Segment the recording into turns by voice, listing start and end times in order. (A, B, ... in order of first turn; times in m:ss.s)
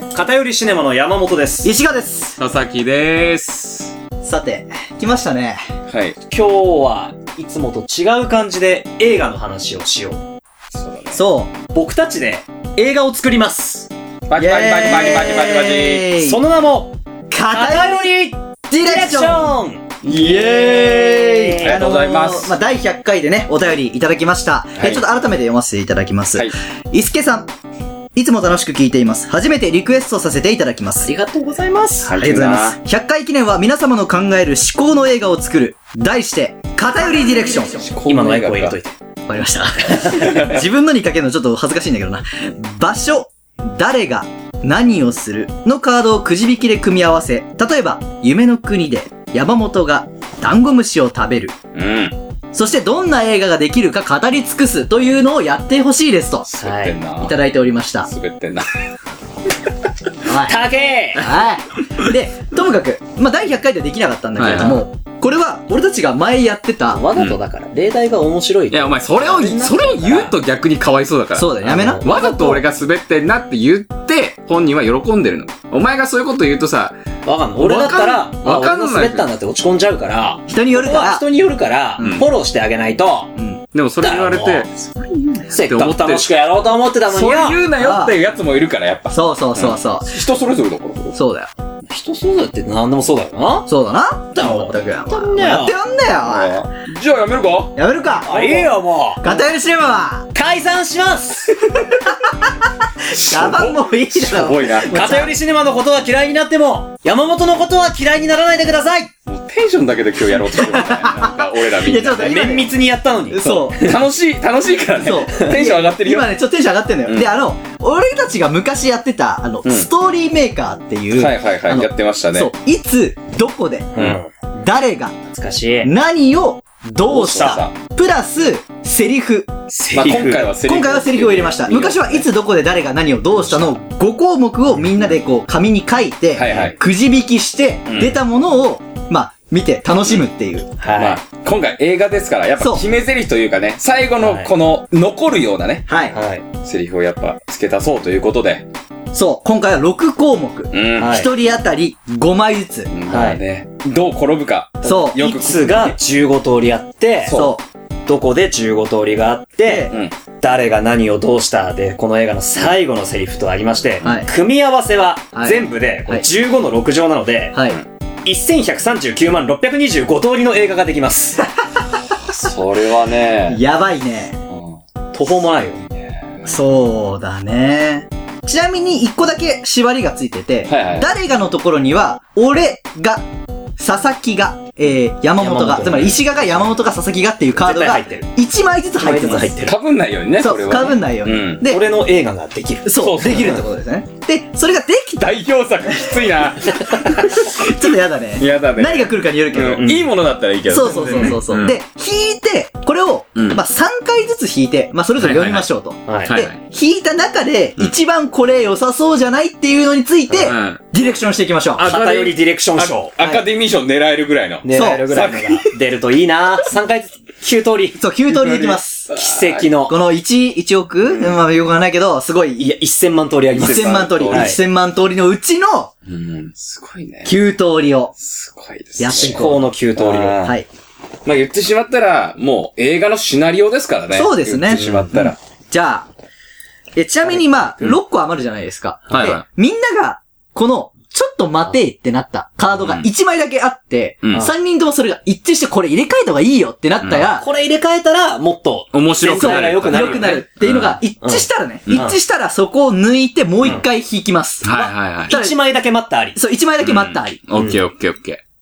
0:00.1-0:01.7 A
0:01.6-0:02.4 B
0:02.4-0:04.0 C
0:04.2-0:05.6 B
0:05.9-0:06.2 C
0:06.3-0:10.2 A
0:10.7-0:11.2 C
0:11.1-0:11.6 B
0:11.7-0:13.9 A
0:14.3-0:16.1 C
0:14.4-0:16.4 B
0:16.2-0:17.0 A
0:17.3-0:18.1 B
0:17.5-0:19.9 A
0:18.7-0:27.5 B
0:20.0-0:20.8 C
0:20.6-0:21.6 A
0:21.6-0:22.5 C
0:24.8-0:25.0 C
0:28.1-0:31.1 B
0:31.0-0:32.2 A
0:32.0-0:32.8 C
0:32.2-0:37.9 B
0:37.7-0:38.8 C
0:38.0-0:38.9 A
0:39.3-0:51.5 B
0:40.2-0:40.6 C
0:51.7-0:52.1 C
0:52.5-0:56.5 B
0:56.5-0:57.4 C
0:56.6-0:57.0 A
0:57.2-0:58.1 B
0:58.0-0:58.6 C
1:00.2-1:07.0 B
1:00.3-1:01.3 A
1:04.4-1:04.8 C
1:06.9-1:10.3 A
1:08.7-1:17.0 C
1:11.4-1:12.6 B
1:11.6-1:12.5 A
1:17.2-1:23.3 A
1:17.6-1:19.3 C
1:20.5-1:21.2 B
1:22.0-1:22.3 C
1:23.4-1:23.6 B
1:23.7-1:26.3 C
1:24.0-1:24.7 A
1:25.5-1:27.6 A
1:27.1-1:31.2 C
1:27.7-1:28.1 B
1:29.1-1:30.2 B
1:31.1-1:31.5 B
1:31.9-1:33.7 A
1:33.7-1:36.6 B
1:34.3-1:35.7 A
1:36.2-1:37.8 C
1:37.8-1:40.3 B
1:38.2-1:39.3 A
1:40.3-1:41.6 A
1:43.1-1:45.2 C
1:43.1-1:45.3 B
1:44.8-1:49.1 A
1:49.3-1:52.6 C
1:50.4-1:52.7 B
1:52.1-1:54.0 A
1:53.3-1:53.8 B
1:53.7-1:56.4 C
1:55.0-2:05.2 B
1:57.0-1:57.3 C
2:01.1-2:02.5 C
2:04.0-2:04.7 A
2:05.3-2:05.9 A
2:05.8-2:09.5 B
2:07.0-2:07.7 C
2:07.3-2:07.6 A
2:09.7-2:10.5 A
2:09.9-2:12.2 C
2:10.4-2:20.7 B
2:16.3-2:16.8 C
2:16.5-2:16.7 A
2:17.9-2:18.2 C
2:20.8-2:21.2 A
2:20.9-2:26.0 C
2:22.6-2:22.8 B
2:24.2-2:24.5 A
2:25.9-2:26.2 B
2:26.1-2:26.4 A
2:26.6-2:28.7 C
2:29.1-2:32.9 B
2:30.7-2:31.1 C
2:31.0-2:31.3 A
2:32.9-2:36.0 C
2:33.1-2:33.4 A
2:34.8-2:35.2 B
2:34.9-2:37.4 A
2:37.2-2:37.6 C
2:37.3-2:37.6 B
2:38.1-2:47.6 A
2:39.7-2:39.9 B
2:45.3-2:46.2 B
2:47.5-2:47.8 B
2:48.2-2:51.5 A
2:52.2-2:53.6 C
2:53.5-2:54.4 B
2:54.5-2:54.8 C
2:55.1-2:55.8 A
2:55.8-2:56.5 C
2:56.4-3:03.2 B
3:00.7-3:01.1 C
3:03.8-3:09.6 B
3:05.4-3:06.2 A
3:07.6-3:08.3 A
3:09.0-3:09.7 A
3:09.5-3:11.6 C
3:10.4-3:11.8 B
3:11.6-3:13.6 A
3:12.8-3:15.3 B
3:13.0-3:13.6 C
3:15.2-3:17.6 C
3:17.3-3:19.9 B
3:18.4-3:21.8 C
3:19.8-3:20.1 A
3:20.7-3:31.9 B
3:21.1-3:21.4 A
3:23.4-3:23.6 C
3:25.2-3:25.7 C
3:26.1-3:26.3 A
3:26.2-3:26.6 C
3:30.4-3:30.8 C
3:31.8-3:33.1 A
3:31.8-3:35.7 C
3:34.6-3:38.0 A
3:34.7-3:35.2 B
3:38.0-3:39.1 B
3:38.3-3:39.7 C
3:39.1-3:40.0 A
3:39.9-3:42.7 B
3:41.0-3:41.3 A
3:42.6-3:44.6 A
3:43.6-3:44.6 C
3:43.6-3:45.9 B
3:46.0-3:47.4 C
3:47.2-3:48.1 B
3:48.2-3:49.4 C
3:49.0-3:49.7 B
3:49.1-3:50.5 A
3:50.0-3:50.5 C
3:50.4-3:50.7 B
3:51.2-3:55.4 C
3:54.1-3:56.1 B
3:54.7-3:55.3 A
3:57.0-4:07.5 B
3:59.1-3:59.4 C
4:02.7-4:03.1 C
4:04.2-4:04.5 C
4:07.0-4:07.3 C
4:07.3-4:10.4 A
4:08.9-4:11.0 C
4:09.3-4:14.7 B
4:11.2-4:12.2 A
4:14.6-4:15.4 C
4:14.7-4:16.4 A
4:15.3-4:15.6 B
4:16.4-4:17.4 B
4:16.8-4:18.4 C